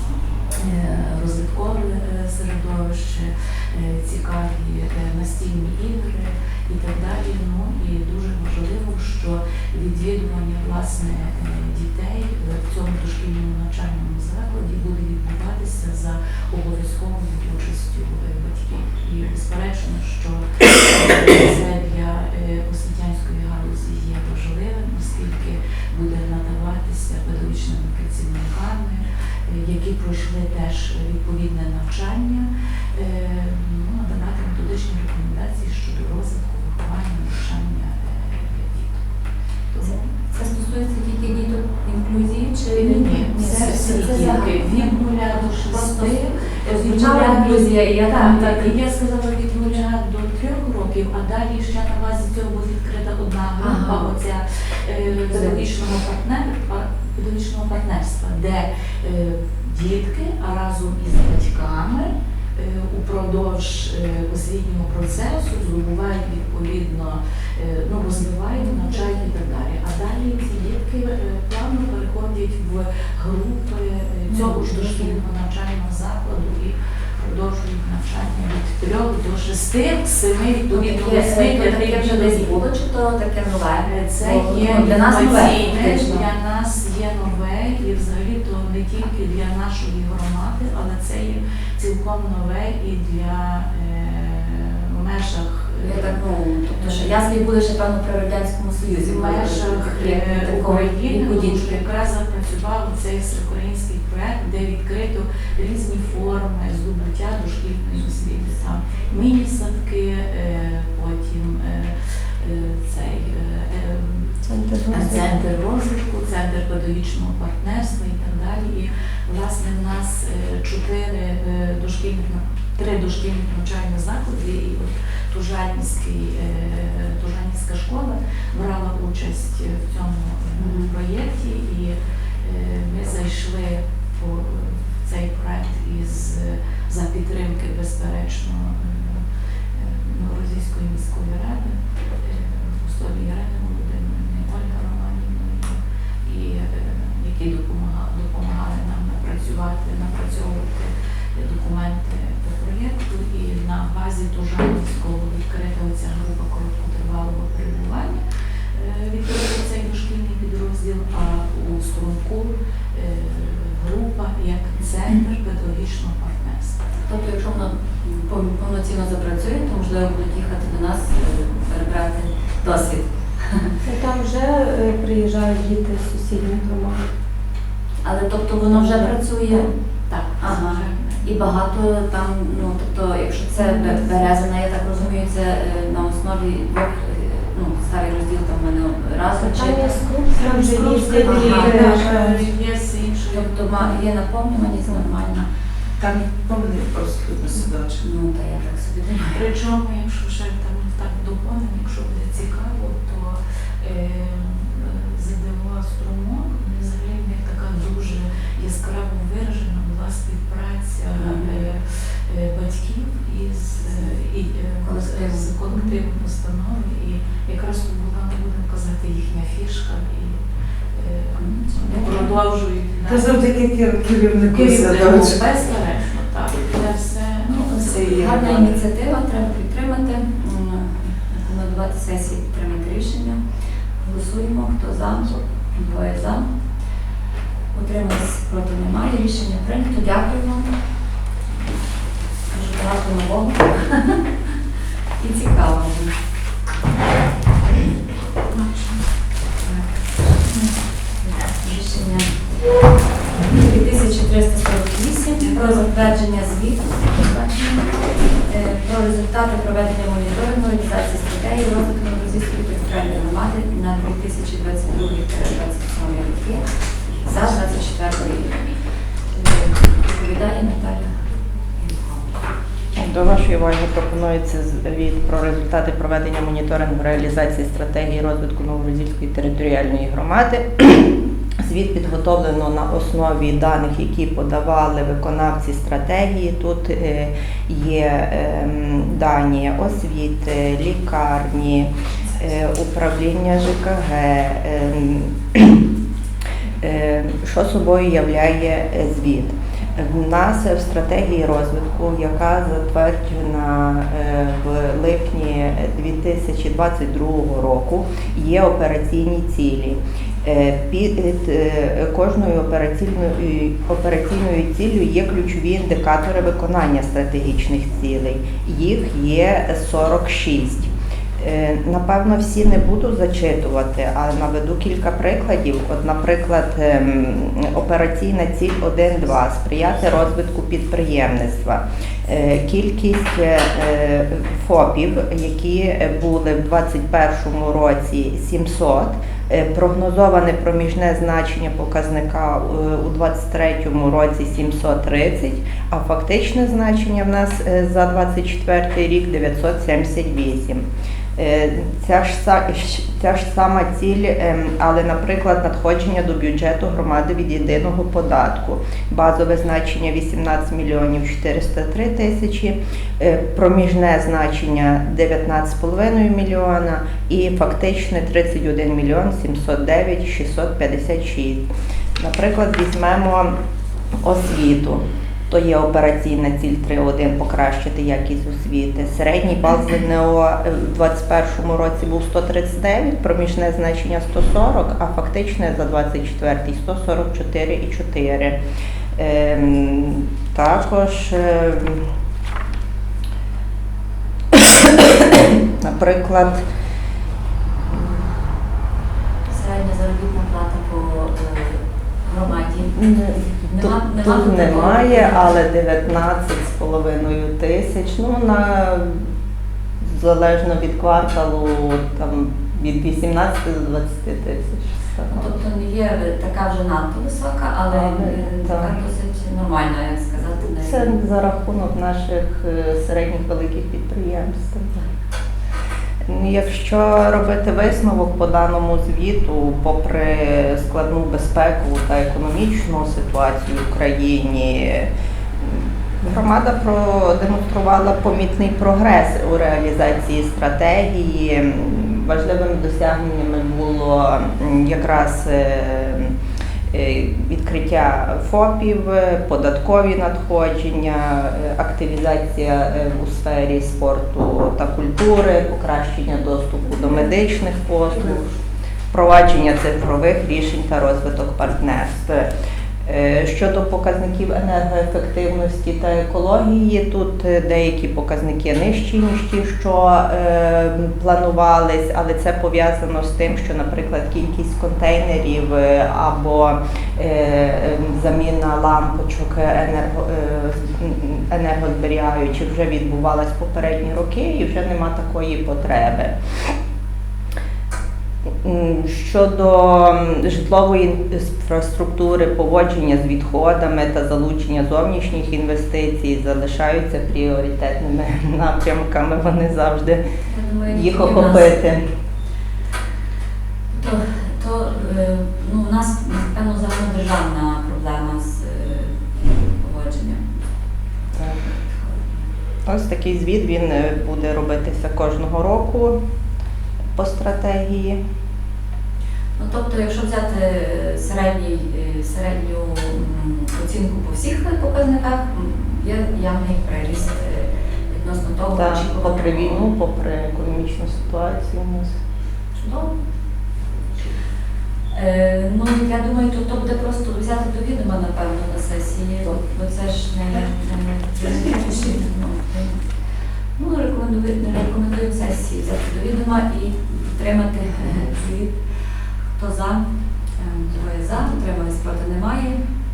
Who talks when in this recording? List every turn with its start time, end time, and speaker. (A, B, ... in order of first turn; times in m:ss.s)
0:00.5-0:39.0 A
0:39.7-0:40.0 A
0:39.8-0:48.7 B
0:42.7-1:22.6 A
0:53.6-0:54.1 B
0:55.2-0:55.6 B
1:08.6-1:09.0 B
1:14.3-1:15.2 B
1:20.7-1:26.2 B
1:23.8-1:37.1 A
1:35.8-1:41.8 B
1:38.8-1:54.3 A
1:54.4-1:55.4 C
1:54.9-2:38.2 A
2:10.6-2:10.9 B
2:38.7-2:46.8 A
2:47.0-2:53.8 B
2:53.8-2:57.0 C
2:58.0-2:59.7 B
2:58.7-3:01.6 A
3:00.4-3:10.0 B
3:09.4-3:12.4 C
3:10.5-3:13.9 A
3:11.2-3:12.0 B
3:13.3-3:15.5 B
3:16.0-3:18.0 D
3:18.0-3:19.4 B
3:19.3-3:40.4 A
3:31.2-3:31.6 B
3:33.8-3:34.1 B
3:34.8-3:35.9 B
3:40.9-3:43.7 A
3:41.4-3:42.3 B
3:43.0-3:45.6 D
3:44.2-3:48.8 A
3:47.6-3:53.4 B
3:47.9-3:48.2 D
3:54.0-3:56.5 B
3:57.7-4:00.7 B
4:02.5-4:04.1 B
4:05.2-4:06.2 B
4:09.6-4:12.4 B
4:13.3-4:26.6 B
4:27.2-4:28.7 B
4:29.3-4:31.1 B
4:31.7-4:32.3 B
4:33.0-4:55.8 E
4:56.8-5:50.8 E
5:51.4-6:11.6 E
6:12.2-6:13.5 E
6:14.2-6:28.6 E
6:29.2-6:32.0 E
6:34.5-6:36.6 E
6:39.5-6:43.0 B
6:42.9-6:49.3 E
6:43.7-6:45.6 B
6:50.0-6:55.6 E
6:55.3-7:01.2 B
6:57.9-6:59.0 E
7:00.6-7:05.0 E
7:06.2-7:15.1 E
7:15.6-7:26.3 E
7:26.9-7:38.4 E
7:39.1-7:42.5 E
7:43.0-8:06.3 E
8:08.6-8:20.2 E
8:20.5-8:21.8 B
8:20.9-8:22.0 E
8:23.9-8:30.4 B
8:31.4-8:31.6 E
8:31.7-8:32.4 B
8:32.8-8:36.2 E
8:37.2-8:38.2 E
8:39.6-8:49.8 B
8:48.7-8:52.2 E
8:52.8-8:53.1 B
8:55.1-9:03.0 B
9:03.8-9:08.8 B
9:09.6-9:10.0 B
9:10.6-9:12.8 B